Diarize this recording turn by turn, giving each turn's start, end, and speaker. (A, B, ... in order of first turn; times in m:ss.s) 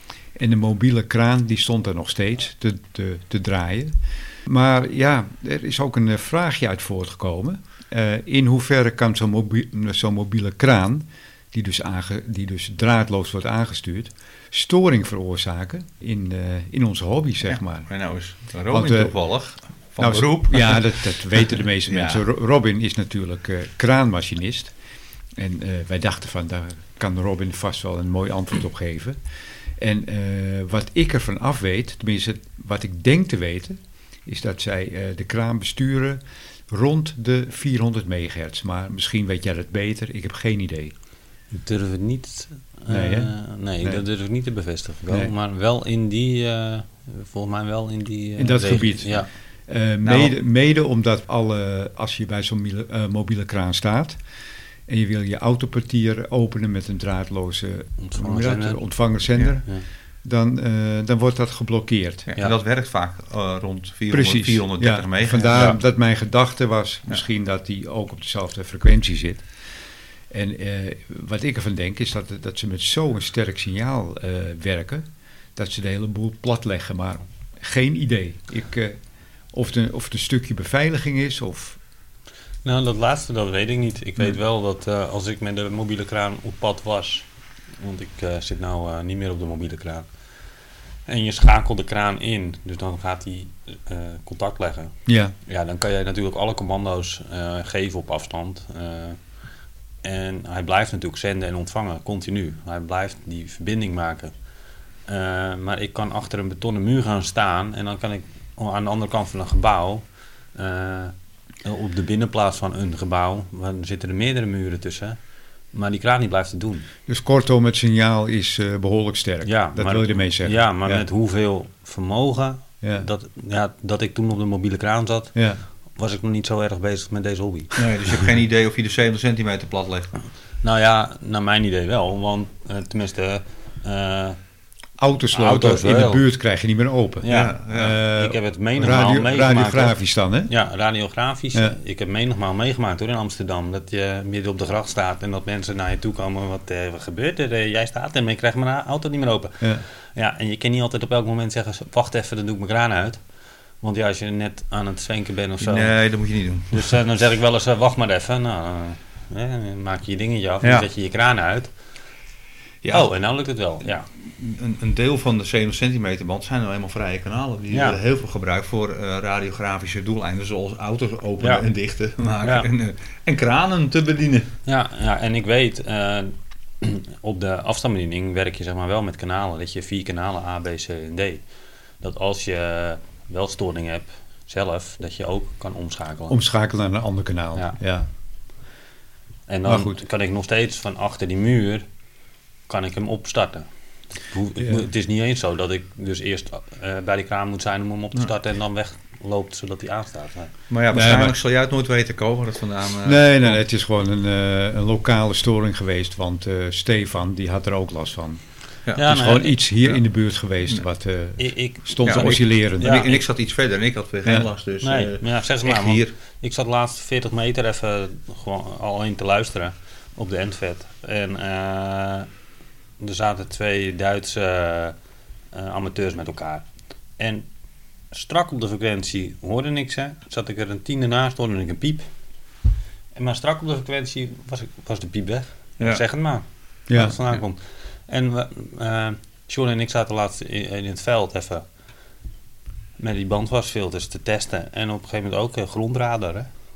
0:00.4-0:03.9 A
0:04.4-0:17.9 A
0:17.5-0:22.2 B
0:18.7-0:19.1 A
0:20.0-0:24.7 A
0:25.4-0:29.2 A
0:29.8-0:40.9 A
0:41.5-0:49.3 C
0:42.9-0:44.0 A
0:48.4-0:54.2 A
0:50.0-0:50.3 B
0:54.9-0:59.7 A
0:58.0-0:58.8 C
1:00.2-1:02.3 A
1:02.3-1:05.8 B
1:04.1-1:09.5 A
1:10.3-1:19.0 A
1:19.5-1:21.8 A
1:22.6-1:27.2 C
1:27.8-1:30.1 C
1:31.1-1:34.9 C
1:35.1-1:35.3 A
1:35.4-1:39.2 C
1:40.0-1:44.3 C
1:45.1-1:50.0 C
1:50.5-1:55.2 C
1:55.7-1:56.8 C
1:57.1-2:01.0 A
1:59.4-2:05.4 C
2:02.8-2:03.1 A
2:05.3-2:05.6 A
2:06.0-2:07.8 C
2:07.8-2:10.2 B
2:10.6-2:14.4 C
2:15.0-2:20.5 A
2:15.3-2:16.2 C
2:17.2-2:17.6 C
2:17.3-2:18.0 B
2:18.1-2:20.0 C
2:20.5-2:33.2 C
2:33.8-2:35.9 C
2:35.6-2:36.9 B
2:36.7-2:41.7 C
2:42.8-2:43.1 B
2:42.9-2:44.1 C
2:44.4-2:54.5 B
2:47.7-2:48.0 C
2:51.4-2:51.6 C
2:54.6-3:01.4 C
3:02.0-3:06.4 C
3:06.3-3:08.1 A
3:09.5-3:11.8 C
3:09.6-3:10.0 A
3:12.7-3:13.6 C
3:14.3-3:20.5 C
3:14.6-3:14.9 A
3:20.7-3:23.6 B
3:20.9-3:21.4 A
3:23.0-3:28.4 A
3:29.0-3:29.6 C
3:29.0-3:33.1 A
3:31.4-3:32.2 C
3:32.0-3:36.1 B
3:32.8-3:33.2 C
3:34.8-3:42.3 C
3:43.0-3:44.9 C
3:45.5-3:46.6 C
3:47.2-3:47.5 C
3:48.1-3:52.0 C
3:53.1-4:01.6 C
3:56.9-3:57.2 A
4:03.0-4:06.5 C